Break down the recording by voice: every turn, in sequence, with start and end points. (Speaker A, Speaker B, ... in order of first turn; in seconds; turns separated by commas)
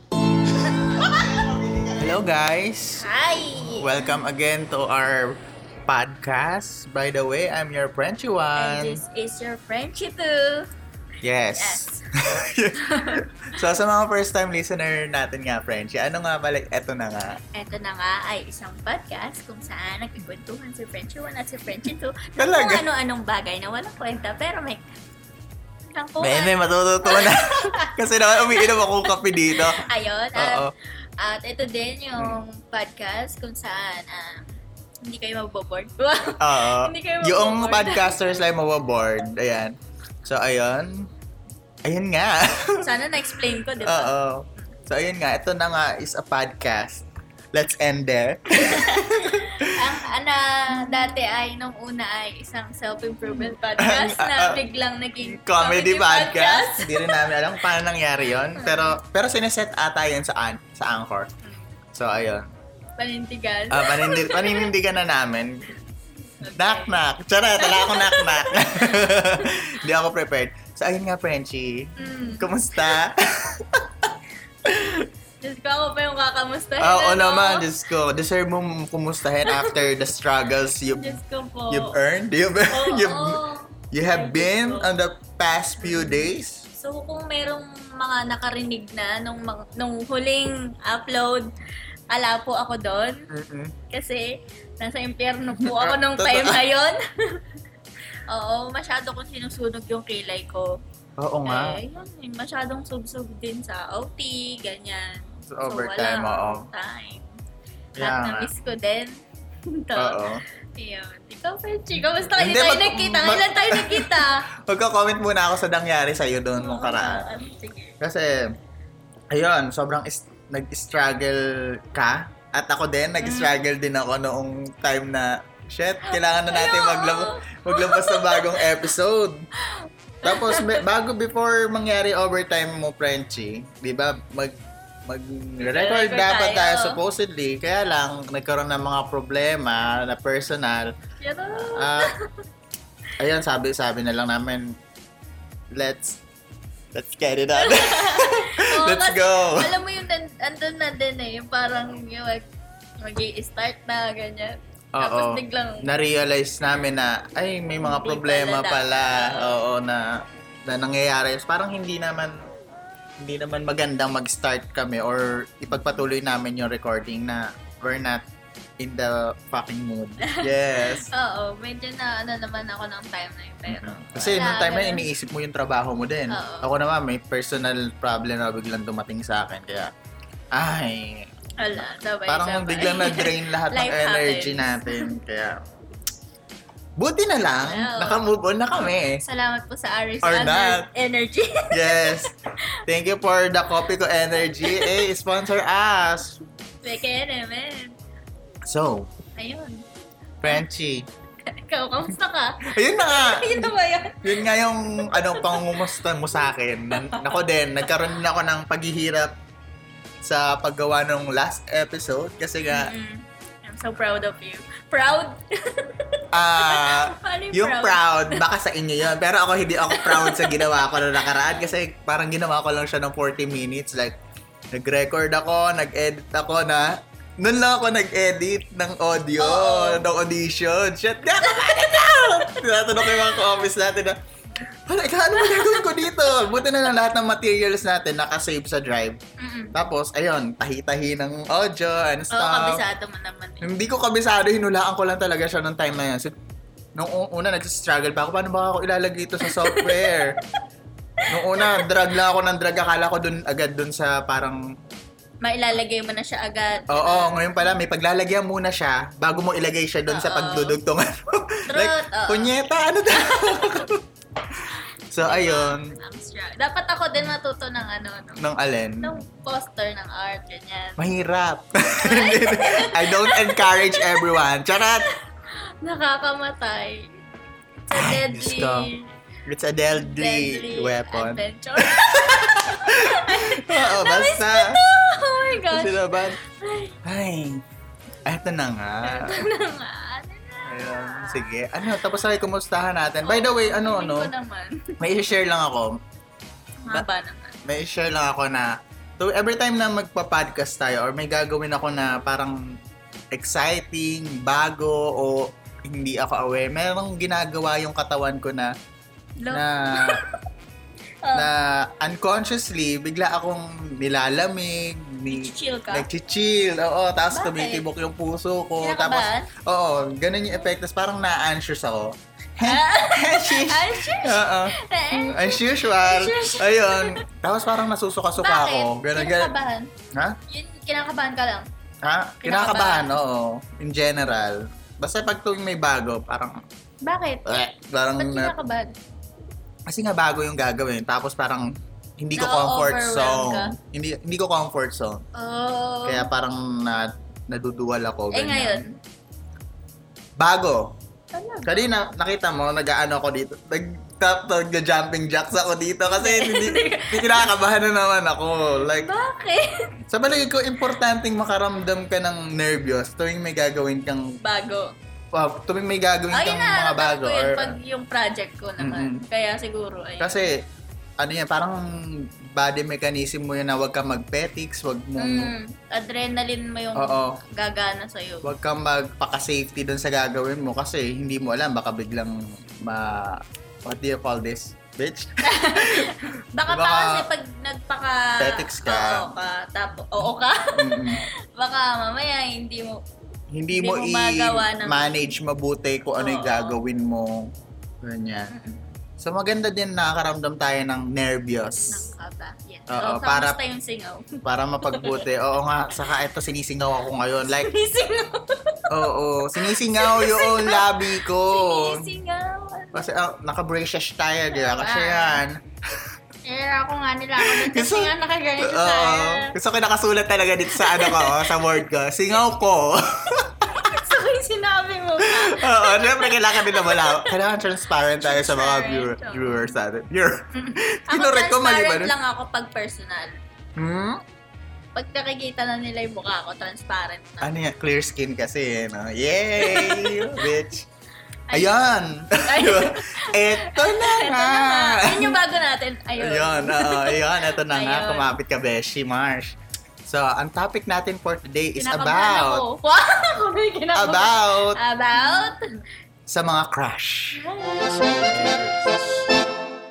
Speaker A: 0.8-3.0, Speaker B: 3.0-4.2, Speaker A: 3.6-9.0, Speaker B: 8.6-10.7, Speaker A: 11.2-17.4, Speaker B: 11.6-12.0, Speaker B: 12.8-13.2, Speaker B: 17.5-24.8, Speaker A: 22.4-22.9, Speaker B: 25.9-28.0, Speaker A: 26.2-30.7, Speaker B: 28.5-34.5, Speaker B: 35.0-38.2, Speaker A: 36.4-41.1, Speaker A: 41.9-42.9, Speaker B: 42.8-44.1, Speaker A: 43.8-49.9, Speaker B: 48.6-57.3, Speaker A: 53.3-54.6, Speaker A: 55.2-61.3, Speaker B: 58.6-59.0, Speaker A: 61.9-62.5, Speaker B: 63.0-64.7, Speaker A: 63.7-65.7, Speaker B: 66.4-67.0, Speaker A: 66.5-74.1, Speaker B: 67.6-69.7, Speaker B: 72.0-72.9, Speaker A: 74.7-75.1, Speaker B: 75.4-77.7, Speaker A: 76.8-83.4, Speaker B: 79.5-79.8, Speaker B: 81.0-82.0, Speaker B: 82.7-84.9, Speaker A: 83.9-86.6, Speaker B: 85.8-91.5, Speaker B: 92.1-93.2, Speaker A: 93.3-93.7, Speaker B: 93.9-97.4, Speaker A: 95.6-96.6, Speaker B: 98.3-100.8, Speaker A: 101.2-101.8, Speaker B: 101.5-107.3, Speaker A: 105.5-106.7, Speaker A: 108.0-108.5, Speaker B: 108.0-110.2, Speaker A: 110.0-110.4, Speaker B: 110.8-114.5, Speaker A: 112.2-117.3, Speaker B: 116.6-118.0, Speaker A: 118.0-118.5, Speaker A: 119.3-129.5, Speaker B: 123.2-123.5, Speaker B: 126.1-128.8, Speaker B: 129.7-130.8, Speaker A: 130.2-140.9, Speaker B: 135.6-137.0, Speaker B: 141.2-142.3, Speaker A: 141.6-142.1, Speaker A: 143.2-144.8, Speaker A: 145.7-146.2, Speaker A: 146.9-149.8, Speaker B: 147.6-152.4, Speaker B: 153.0-155.9, Speaker A: 154.9-162.4, Speaker B: 157.8-159.6, Speaker A: 163.2-168.2, Speaker A: 168.8-171.1, Speaker B: 170.2-175.1, Speaker A: 173.7-179.9, Speaker B: 176.3-176.7, Speaker A: 180.5-181.3, Speaker B: 181.6-185.1, Speaker A: 182.3-185.6, Speaker A: 187.0-189.2, Speaker B: 187.7-188.2, Speaker B: 189.2-192.3, Speaker A: 190.2-190.9, Speaker A: 191.7-192.3, Speaker A: 192.9-196.4, Speaker B: 194.6-195.0, Speaker B: 196.8-198.0, Speaker A: 198.7-199.1, Speaker B: 199.4-199.8, Speaker A: 200.4-201.1, Speaker B: 201.5-205.9, Speaker A: 202.7-209.4, Speaker B: 206.9-207.4, Speaker A: 210.2-212.9, Speaker B: 212.7-218.4, Speaker A: 216.3-224.2, Speaker B: 219.9-220.9, Speaker A: 224.7-234.2, Speaker B: 229.4-230.1, Speaker B: 231.3-233.7, Speaker A: 234.9-239.2, Speaker B: 235.4-235.9, Speaker B: 239.4-239.7, Speaker A: 239.7-242.8, Speaker B: 242.3-243.7, Speaker A: 243.6-246.3, Speaker A: 247.0-250.4, Speaker B: 249.4-250.1, Speaker B: 251.2-251.9, Speaker A: 251.3-254.6, Speaker B: 255.4-257.7, Speaker A: 256.9-264.0, Speaker B: 260.1-260.8, Speaker B: 261.7-262.5, Speaker A: 265.1-265.9, Speaker B: 265.2-268.4, Speaker A: 268.4-269.2, Speaker B: 269.0-271.0, Speaker A: 271.0-275.1, Speaker B: 271.9-275.2, Speaker B: 275.8-277.1, Speaker B: 277.9-279.1, Speaker A: 277.9-278.9, Speaker A: 279.5-284.8, Speaker B: 279.9-287.0, Speaker A: 285.7-286.4, Speaker A: 287.1-287.6, Speaker A: 288.3-289.5, Speaker B: 289.0-291.5, Speaker A: 290.7-294.3, Speaker B: 293.2-295.0, Speaker A: 295.0-296.0, Speaker B: 296.8-297.6, Speaker A: 297.6-302.8, Speaker A: 303.3-308.7, Speaker B: 309.4-310.4, Speaker A: 309.5-310.2, Speaker B: 311.2-311.5, Speaker A: 311.3-329.5, Speaker B: 315.3-316.1, Speaker B: 317.3-317.8, Speaker B: 318.8-319.5, Speaker B: 322.6-327.2, Speaker B: 328.4-329.9, Speaker B: 330.5-331.7, Speaker A: 332.0-336.6, Speaker B: 332.4-333.1, Speaker B: 337.0-337.6, Speaker A: 337.4-338.6, Speaker B: 338.2-338.9, Speaker A: 339.9-345.2, Speaker B: 342.4-343.7, Speaker B: 345.4-346.3, Speaker A: 346.1-348.9, Speaker B: 348.3-349.0, Speaker A: 350.4-350.9, Speaker B: 351.3-351.8, Speaker A: 351.6-359.1, Speaker B: 356.1-357.5, Speaker B: 358.9-359.9, Speaker A: 360.1-364.4, Speaker B: 364.4-364.9, Speaker A: 365.3-367.8, Speaker B: 366.3-370.5, Speaker A: 368.8-369.2, Speaker A: 370.2-370.6, Speaker A: 371.2-375.5, Speaker B: 375.2-378.5, Speaker A: 377.0-377.4, Speaker A: 378.4-386.1, Speaker B: 385.4-393.0, Speaker A: 386.7-387.3, Speaker A: 388.4-389.3, Speaker A: 390.8-391.2, Speaker A: 393.5-398.5, Speaker B: 393.7-395.2, Speaker B: 396.1-396.8, Speaker B: 398.5-398.8, Speaker A: 399.2-402.1, Speaker B: 401.9-405.3, Speaker A: 402.9-403.6, Speaker A: 404.4-407.8, Speaker B: 407.6-408.9, Speaker A: 408.9-412.1, Speaker B: 409.6-413.1, Speaker A: 412.9-416.0, Speaker B: 414.5-415.4, Speaker B: 416.4-419.6, Speaker A: 417.4-423.9, Speaker B: 420.7-421.6, Speaker B: 423.7-427.4, Speaker A: 425.2-432.1, Speaker B: 428.2-429.8, Speaker B: 430.5-433.4, Speaker A: 433.8-434.2, Speaker B: 434.9-437.6, Speaker A: 437.4-440.9, Speaker B: 439.6-440.5, Speaker B: 441.5-441.9, Speaker A: 441.5-445.4, Speaker B: 442.4-448.4, Speaker A: 446.2-452.6, Speaker B: 451.8-455.7, Speaker A: 453.9-454.8, Speaker A: 456.3-457.4, Speaker B: 457.3-459.1, Speaker A: 458.2-459.0